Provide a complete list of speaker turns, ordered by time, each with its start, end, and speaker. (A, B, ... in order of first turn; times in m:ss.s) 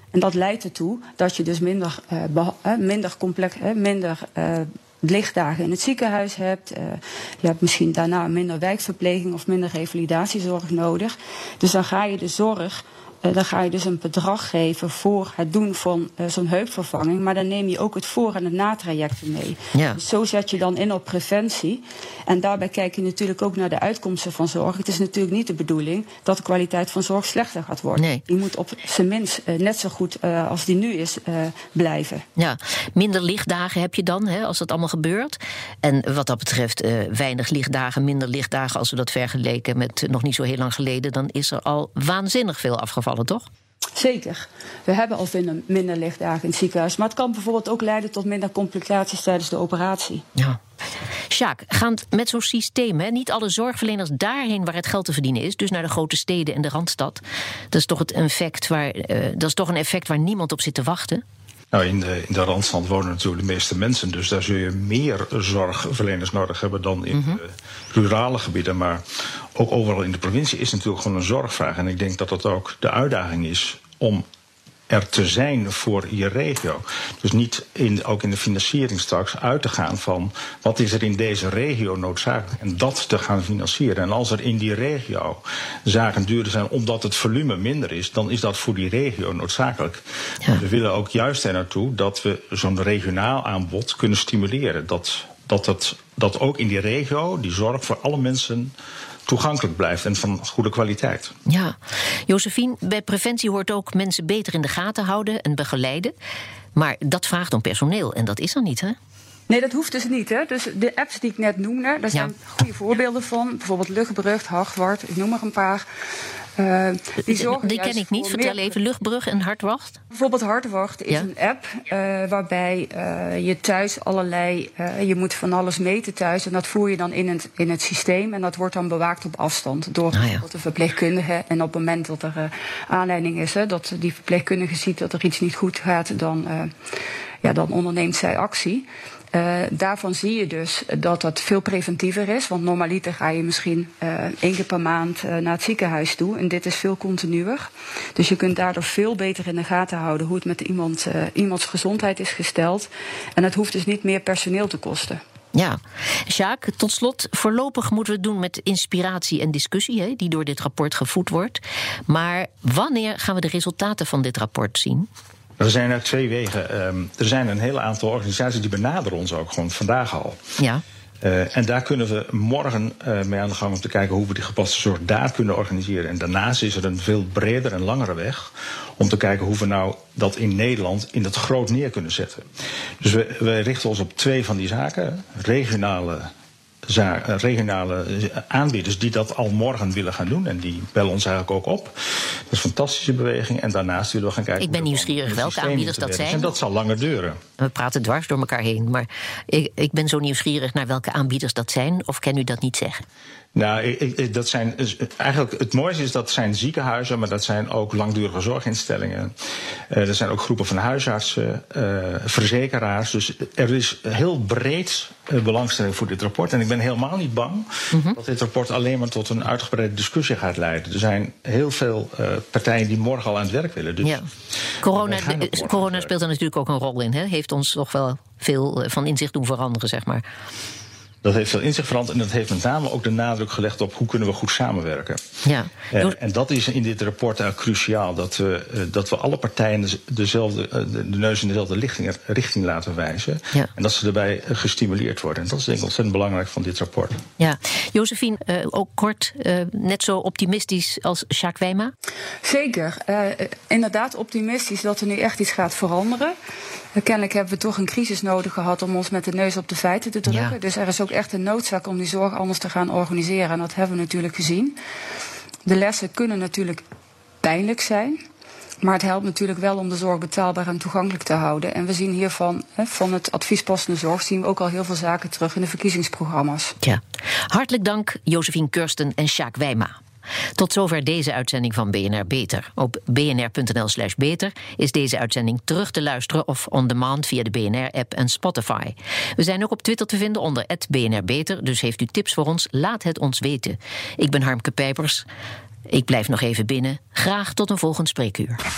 0:00.1-0:32.2 A
0:19.7-0:20.0 B
0:28.0-0:28.2 B
0:32.4-0:43.4 B
0:43.9-0:50.2 A
0:51.3-0:57.2 B
0:57.7-1:01.2 B
1:01.7-1:09.0 C
1:07.1-1:07.4 B
1:09.6-1:14.2 C
1:14.9-1:30.0 C
1:30.5-1:38.7 C
1:39.3-1:41.3 C
1:41.5-1:41.8 B
1:42.3-1:46.1 B
1:46.7-1:49.0 B
1:49.5-1:55.8 A
1:56.6-1:58.8 A
1:57.2-2:00.0 B
2:00.1-2:16.7 A
2:10.1-2:10.4 B
2:17.4-2:35.2 A
2:35.5-2:45.1 B
2:45.6-2:50.4 C
2:50.6-2:50.8 B
2:51.2-3:02.4 C
3:03.0-3:06.3 C
3:06.9-3:17.4 C
3:14.6-3:16.5 B
3:17.6-3:23.0 B
3:23.5-3:29.3 C
3:29.9-3:44.2 C
3:37.9-3:38.2 B
3:44.8-3:50.2 B
3:44.8-3:46.1 C
3:51.2-3:55.2 C
3:55.4-3:56.1 B
3:55.9-4:07.2 C
4:07.4-4:11.9 B
4:12.4-4:16.3 A
4:16.9-4:24.8 A
4:20.3-4:20.5 B
4:25.6-4:26.8 A
4:27.4-4:28.2 A
4:28.8-4:36.8 A
4:36.8-4:39.9 B
4:40.6-4:55.2 B
4:55.9-4:58.6 B